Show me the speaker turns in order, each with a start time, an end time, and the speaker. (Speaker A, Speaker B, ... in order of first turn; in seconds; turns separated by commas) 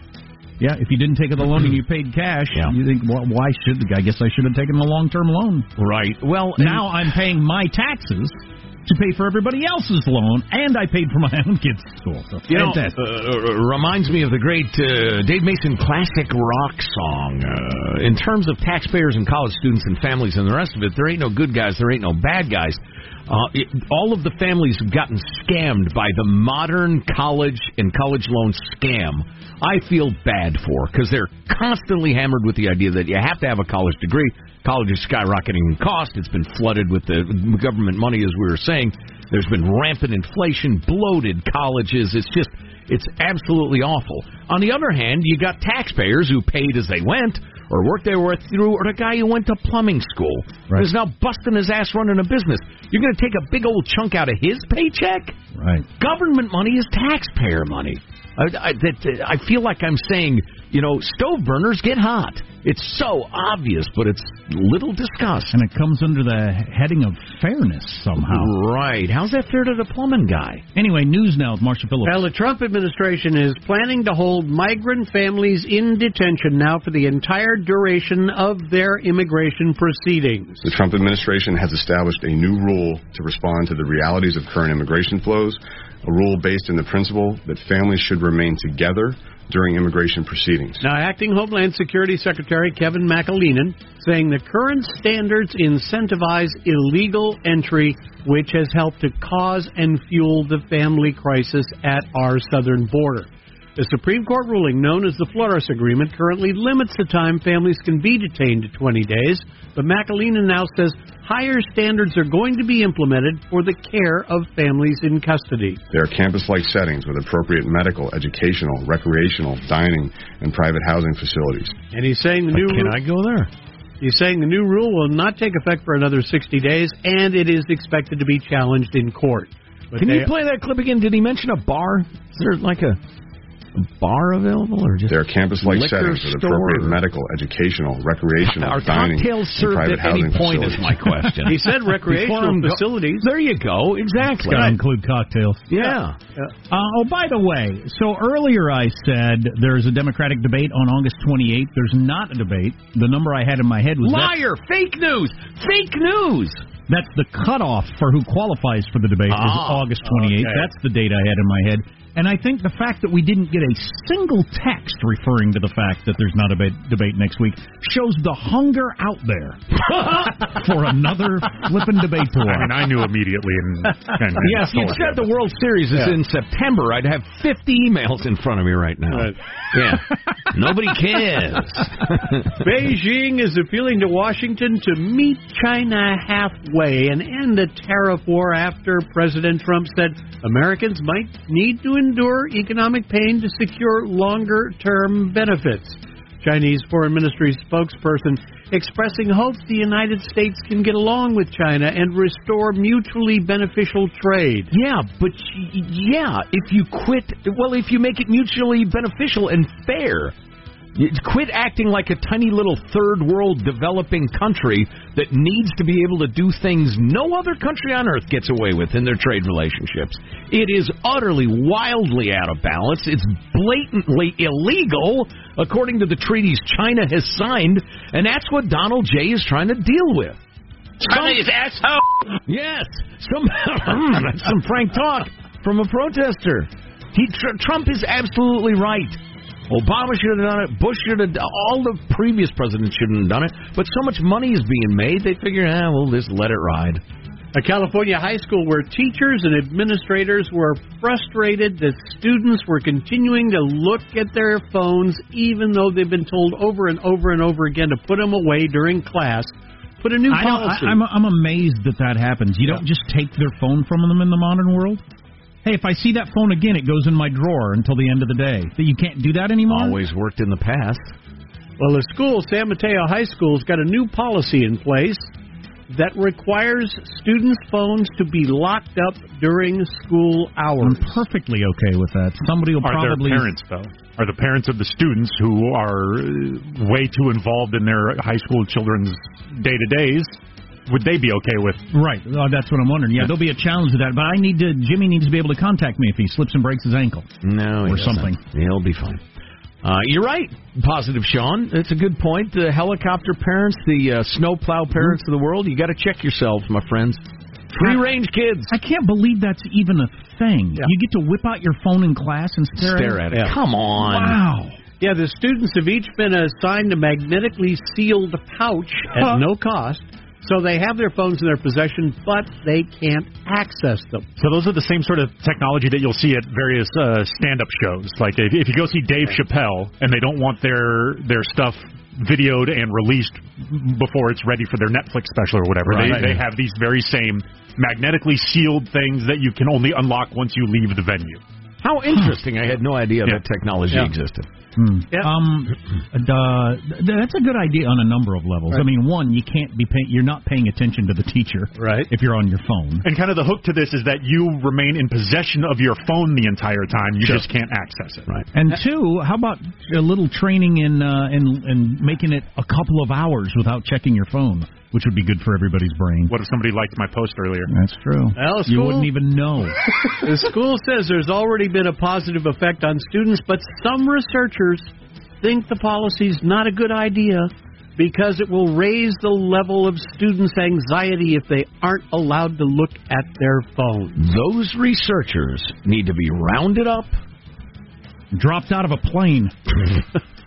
Speaker A: 0.6-5.7, Speaker B: 5.8-6.9, Speaker A: 6.6-13.0, Speaker B: 12.5-55.4, Speaker A: 55.5-55.9, Speaker B: 56.0-65.6, Speaker A: 65.5-68.5, Speaker B: 68.2-70.6, Speaker A: 70.8-72.3, Speaker C: 72.0-80.6, Speaker D: 80.6-90.9, Speaker C: 90.8-115.8, Speaker D: 115.9-121.8, Speaker C: 121.9-123.0, Speaker B: 122.5-123.5, Speaker C: 124.0-130.3, Speaker B: 130.0-133.0, Speaker B: 133.8-137.0, Speaker D: 135.1-141.2, Speaker B: 138.4-144.8, Speaker C: 141.4-143.3, Speaker A: 144.4-145.7, Speaker C: 144.5-144.8, Speaker B: 145.7-146.2, Speaker C: 145.8-146.5, Speaker A: 146.7-154.3, Speaker B: 154.0-156.6, Speaker A: 156.9-172.8, Speaker B: 159.3-159.9, Speaker C: 160.1-160.7, Speaker E: 172.4-175.3, Speaker B: 174.4-182.6, Speaker C: 179.1-179.4, Speaker C: 182.6-204.7, Speaker B: 204.7-210.3, Speaker B: 210.9-230.4, Speaker B: 231.0-247.0, Speaker C: 247.5-261.0, Speaker A: 260.3-265.0, Speaker A: 265.6-270.0, Speaker B: 269.7-271.1, Speaker C: 271.8-275.2, Speaker C: 275.9-281.2, Speaker A: 280.8-283.5, Speaker E: 282.8-290.4, Speaker E: 290.9-291.9, Speaker A: 291.9-297.3, Speaker B: 297.4-299.2, Speaker A: 297.9-298.4, Speaker B: 299.8-308.8, Speaker A: 308.7-313.2, Speaker B: 312.8-314.4, Speaker A: 314.1-314.8, Speaker C: 315.0-324.3, Speaker E: 324.4-341.4, Speaker B: 335.9-336.4, Speaker B: 341.8-344.5, Speaker A: 344.8-353.1, Speaker C: 351.8-352.1, Speaker E: 353.0-358.3, Speaker A: 358.5-366.3, Speaker E: 366.3-367.7, Speaker A: 367.7-369.8, Speaker C: 368.4-369.1, Speaker C: 370.2-374.9, Speaker C: 375.4-384.2, Speaker B: 384.2-387.2, Speaker A: 388.3-389.5